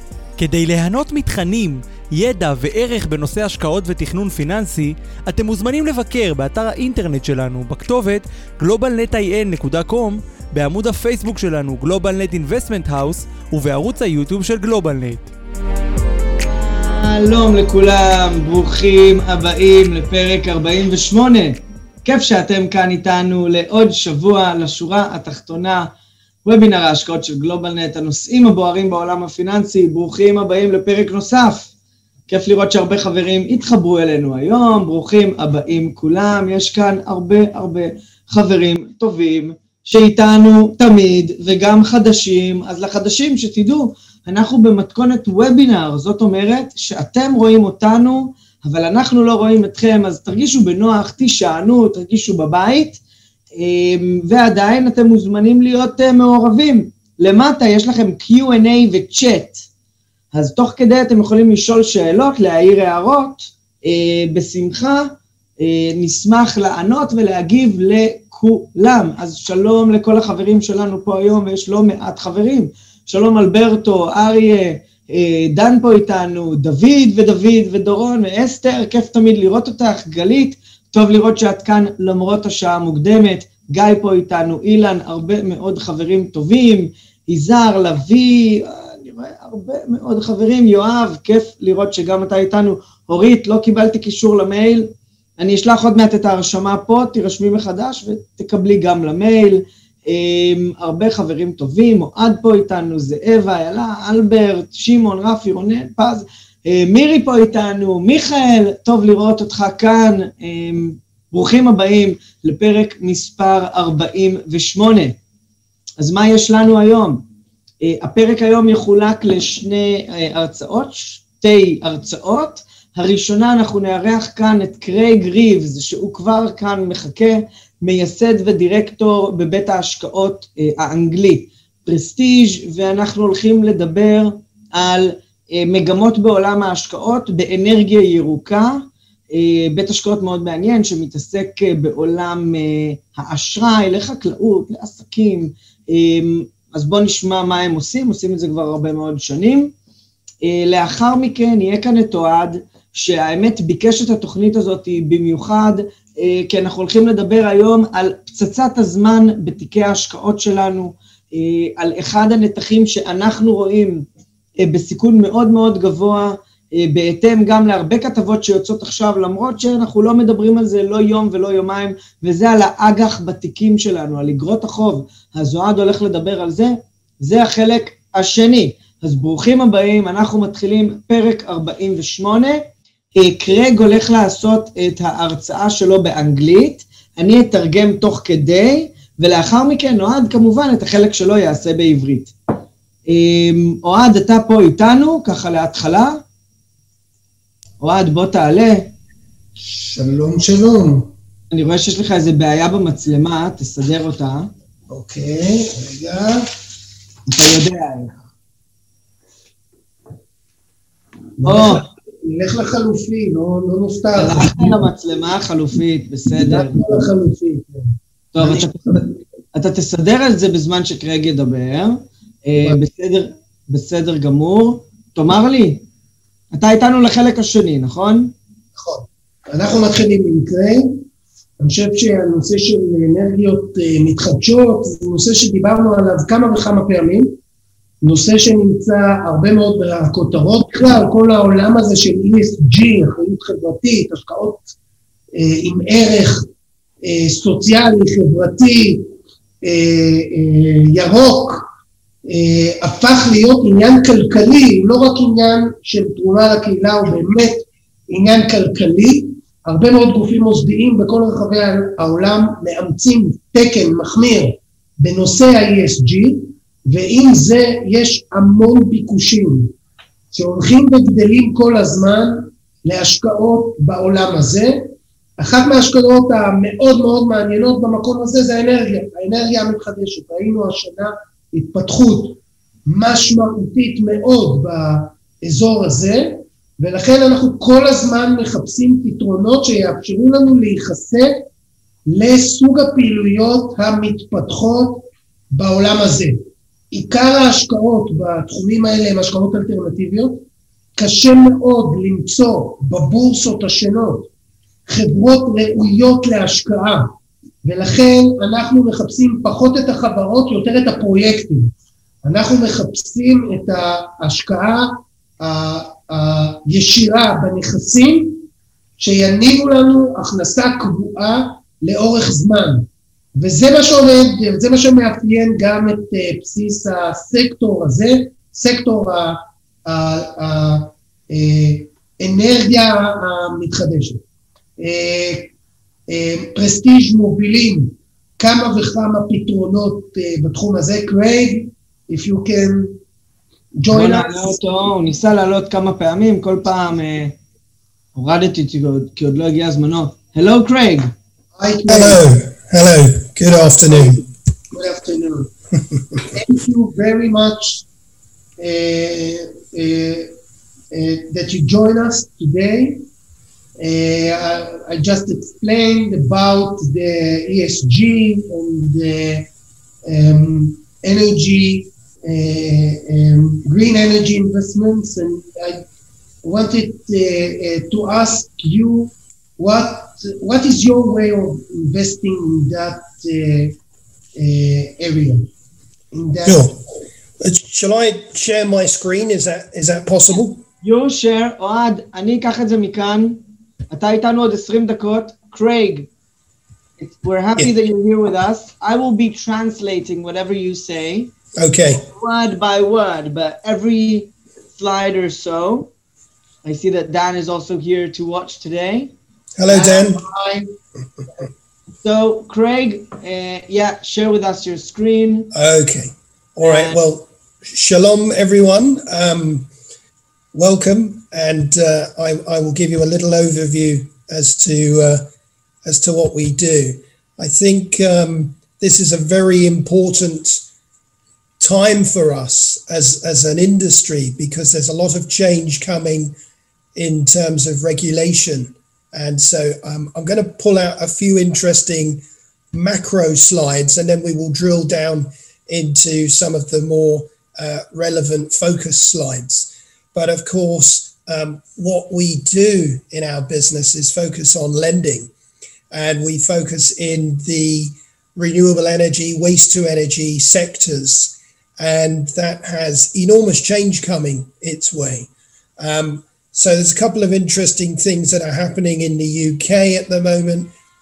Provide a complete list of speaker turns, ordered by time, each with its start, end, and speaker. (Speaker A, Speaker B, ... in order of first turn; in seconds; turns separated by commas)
Speaker A: 0.4-15.3, Speaker B: 16.7-25.9, Speaker B: 26.4-31.7, Speaker B: 32.3-53.0, Speaker B: 53.6-59.7, Speaker B: 60.3-115.2, Speaker B: 116.0-117.2, Speaker B: 117.8-149.7, Speaker B: 150.4-164.1, Speaker B: 164.6-192.3, Speaker B: 193.1-196.2, Speaker B: 197.8-198.9, Speaker C: 199.6-201.1, Speaker B: 201.5-204.5, Speaker C: 204.9-206.5, Speaker B: 207.3-208.1, Speaker C: 211.4-214.8, Speaker B: 211.4-211.8, Speaker B: 214.2-216.8, Speaker C: 216.4-217.9, Speaker B: 218.3-219.0, Speaker C: 218.4-219.1, Speaker B: 219.5-225.8, Speaker B: 226.5-228.3, Speaker C: 228.8-231.0, Speaker C: 231.6-237.4, Speaker C: 238.0-244.7, Speaker C: 245.4-246.5, Speaker C: 247.0-249.1, Speaker C: 249.6-251.6, Speaker C: 252.3-269.7, Speaker C: 270.3-274.9, Speaker C: 275.4-291.4, Speaker C: 292.1-296.4, Speaker C: 296.9-300.4, Speaker C: 301.0-304.3, Speaker C: 304.9-307.1, Speaker C: 307.6-311.7, Speaker C: 312.2-318.4, Speaker C: 319.0-334.2, Speaker C: 334.8-335.5, Speaker C: 336.1-343.0, Speaker C: 343.8-344.6, Speaker B: 343.9-347.4, Speaker B: 348.1-351.1, Speaker C: 351.6-352.2, Speaker D: 351.9-354.2, Speaker C: 353.5-355.5, Speaker C: 356.3-357.9, Speaker C: 358.6-360.3, Speaker C: 360.9-363.0, Speaker C: 363.8-369.5, Speaker C: 370.1-375.9, Speaker C: 376.4-383.8, Speaker C: 384.4-385.5, Speaker C: 386.1-386.7, Speaker D: 386.4-386.8, Speaker D: 387.4-390.6, Speaker B: 390.8-396.1, Speaker B: 397.0-401.3, Speaker D: 401.6-402.1, Speaker B: 402.1-405.9, Speaker B: 406.6-409.1, Speaker D: 409.6-410.2, Speaker C: 409.7-410.7, Speaker B: 412.0-415.5, Speaker D: 415.5-419.7, Speaker B: 416.6-417.0, Speaker D: 420.5-425.3, Speaker D: 425.9-430.7, Speaker D: 431.6-436.4, Speaker D: 436.9-442.2, Speaker D: 442.7-455.3, Speaker D: 455.9-470.7